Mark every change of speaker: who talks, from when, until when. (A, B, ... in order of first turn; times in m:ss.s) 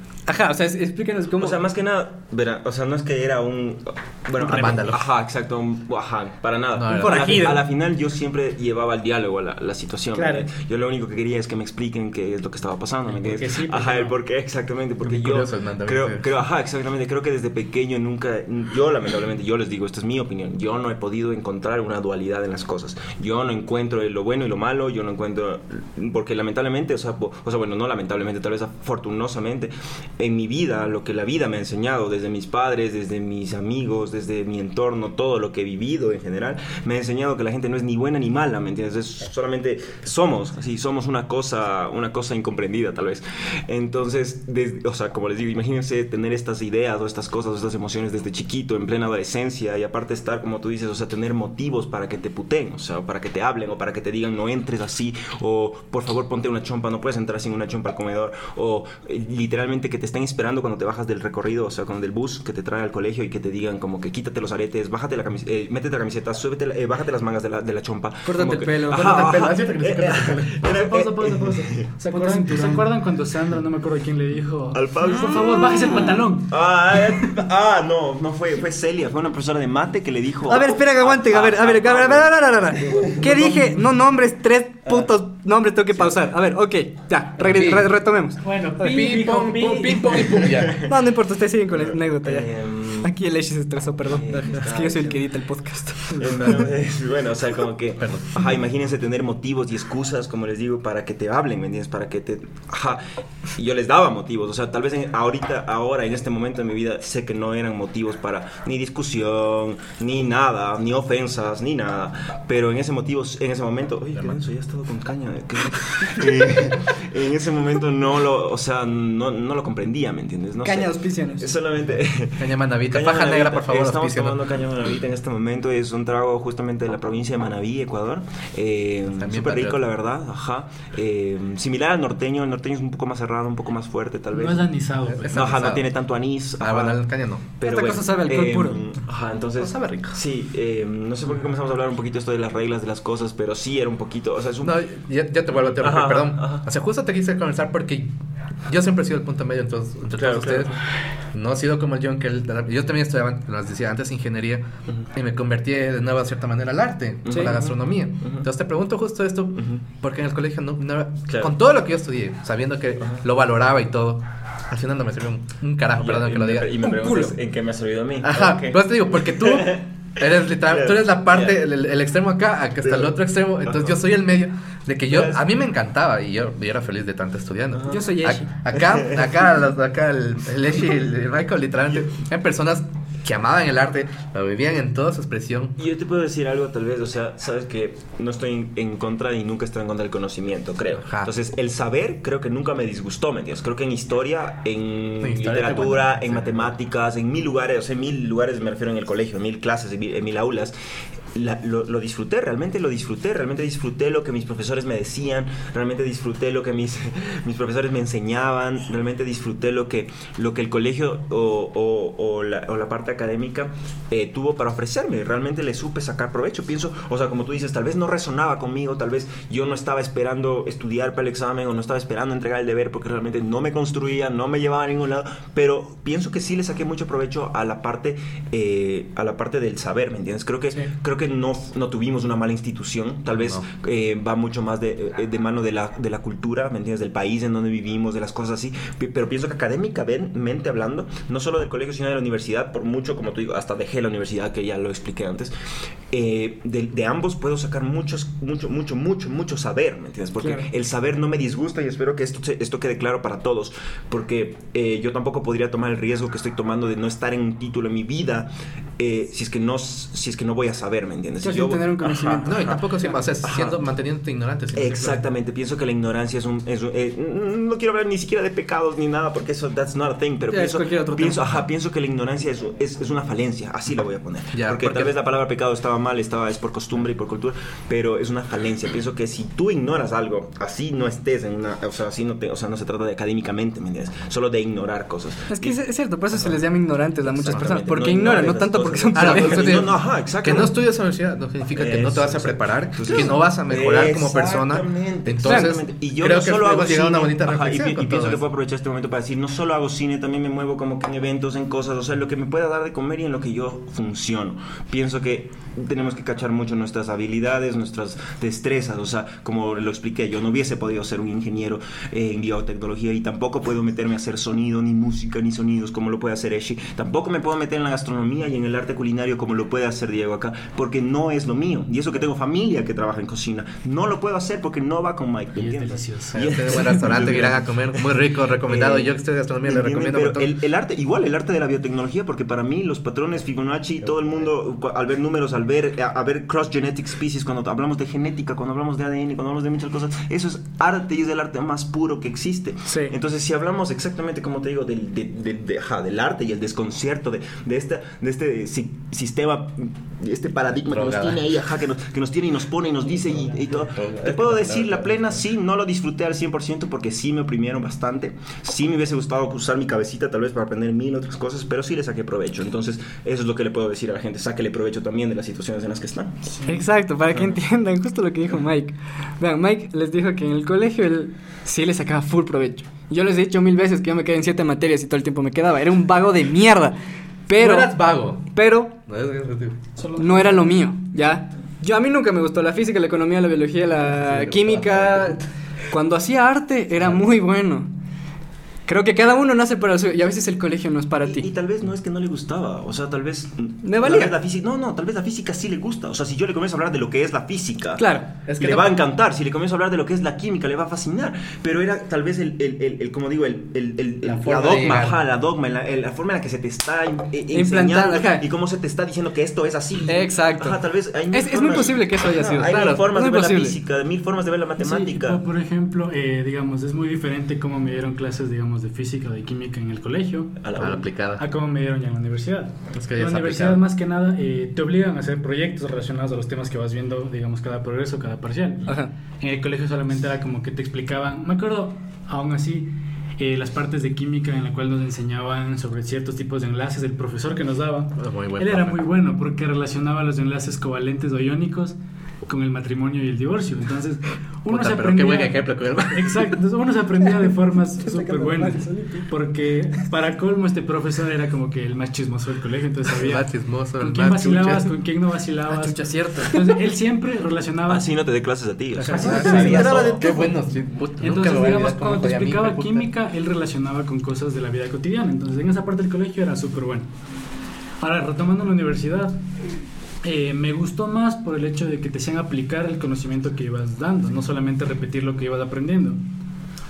0:00.2-0:01.6 A
0:01.4-1:11.9 B
0:04.4-0:05.1 C
0:06.7-0:07.6 C
0:06.9-0:07.6 A
0:10.1-0:10.4 A
0:13.1-0:14.2 D
0:15.0-0:16.2 C
1:08.2-1:10.6 C
1:10.6-1:16.5 D
1:12.1-1:12.9 A
1:14.7-1:23.6 B
1:20.5-1:28.4 A
1:25.9-1:26.2 B
1:27.4-1:27.9 C
1:28.4-1:30.5 D
1:28.8-1:30.8 C
1:30.6-1:30.9 B
1:30.8-1:36.5 A
1:31.7-1:33.1 B
1:34.0-1:35.2 B
1:36.2-1:43.0 B
1:38.0-1:38.3 C
1:43.5-2:14.7 B
1:54.1-1:54.4 C
2:00.6-2:01.5 A
2:02.4-2:04.4 C
2:09.1-2:09.8 C
2:14.3-2:15.4 D
2:15.1-2:15.9 C
2:15.3-2:17.0 B
2:16.6-2:17.4 C
2:17.6-2:24.8 B
2:17.6-2:18.8 A
2:19.6-2:20.2 C
2:24.6-2:28.1 C
2:25.5-2:26.6 B
2:28.7-2:30.7 C
2:30.2-2:30.9 B
2:31.3-2:46.8 C
2:37.2-2:38.5 B
2:39.6-2:39.8 B
2:46.0-2:51.6 B
2:46.8-2:47.3 A
2:48.2-3:05.8 C
2:52.8-2:54.0 B
2:55.1-2:55.4 B
2:57.7-2:58.1 B
2:57.9-2:58.4 A
2:58.8-2:59.2 B
3:05.8-3:20.7 B
3:11.0-3:11.3 C
3:15.2-3:16.7 C
3:21.3-4:05.5 B
4:06.1-4:22.8 B
4:10.4-4:10.7 A
4:21.4-4:23.2 A
4:22.4-4:25.2 C
4:23.4-4:23.8 B
4:24.7-4:45.8 B
4:30.5-4:31.6 A
4:34.5-4:35.1 C
4:45.5-4:49.9 A
4:46.3-4:46.6 B
4:47.2-4:50.7 B
4:49.1-4:58.4 C
4:51.8-5:28.0 B
4:55.4-4:55.7 A
5:25.6-5:26.7 D
5:26.3-5:30.5 C
5:28.6-6:06.5 B
5:42.9-5:43.2 A
5:50.9-5:51.4 C
5:53.9-5:55.4 C
6:06.6-6:06.8 D
6:06.6-6:18.0 A
6:17.6-6:19.8 C
6:18.5-6:18.9 A
6:20.0-6:20.7 D
6:20.2-6:27.9 A
6:24.1-6:25.4 C
6:27.0-6:27.2 C
6:28.8-6:31.5 A
6:31.2-6:38.0 B
6:33.8-6:34.3 A
6:38.0-6:38.4 A
6:38.5-6:38.9 C
6:38.5-6:55.4 B
6:44.2-6:45.2 C
6:47.5-6:48.4 A
6:50.1-6:50.8 A
6:51.3-6:53.8 A
6:54.8-7:00.6 D
7:00.6-7:01.0 B
7:00.8-7:01.4 C
7:01.4-7:38.1 D
7:02.9-7:03.8 C
7:18.2-7:19.0 C
7:24.7-7:26.6 C
7:28.0-7:29.3 A
7:33.1-7:34.9 C
7:35.7-7:36.7 A
7:37.9-7:40.5 B
7:39.0-7:40.2 D
7:39.1-7:40.1 A
7:39.1-7:43.1 C
7:41.2-7:47.1 D
7:48.0-7:49.4 D
7:50.2-7:56.2 D